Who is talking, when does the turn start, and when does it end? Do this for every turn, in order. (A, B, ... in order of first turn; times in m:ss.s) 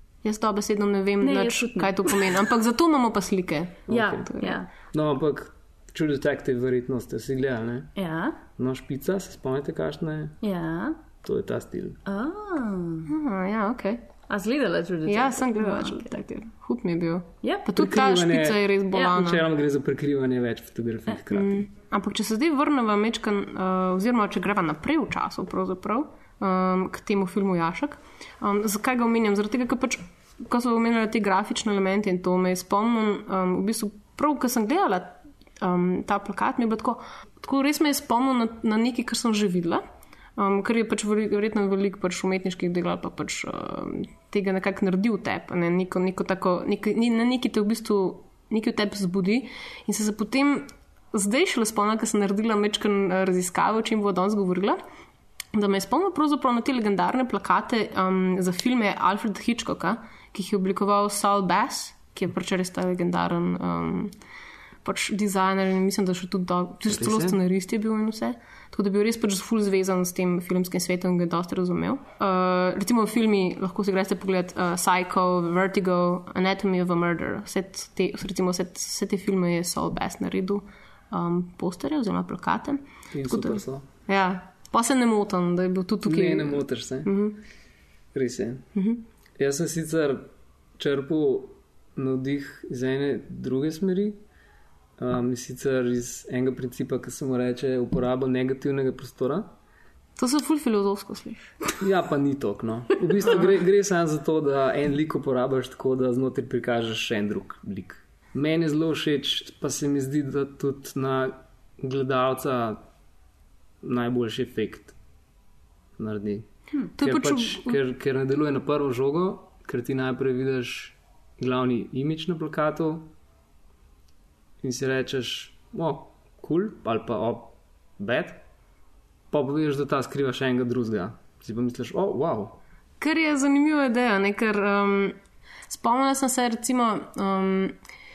0:00.2-0:04.6 A
0:01.2-0:02.5 B
0:03.9-0:08.0 C
0:03.9-0:04.7 B
0:08.0-0:08.4 B
0:08.6-0:10.4 C
0:10.4-0:11.0 B
0:11.2-0:12.0 C
0:12.1-0:13.1 B
0:13.1-0:14.1 A
0:14.3-0:16.2 B
0:15.1-0:19.4 A
0:17.4-0:17.7 B
0:17.8-0:21.6 C
0:21.3-0:39.8 A
0:40.4-0:54.8 A
0:55.5-1:04.1 A
1:04.8-1:27.4 A
1:06.9-1:07.4 C
1:23.1-1:23.9 C
1:26.0-1:27.1 C
1:28.1-1:28.7 C
1:28.8-1:29.0 A
1:29.4-1:34.2 C
1:35.0-1:39.5 C
1:40.2-1:41.6 A
1:41.8-1:52.8 C
1:53.8-1:55.0 C
1:56.0-1:56.5 C
1:57.0-1:57.8 A
1:57.0-2:03.1 C
2:04.6-2:08.4 C
2:09.3-2:12.6 C
2:13.0-2:15.2 A
2:15.7-2:17.8 A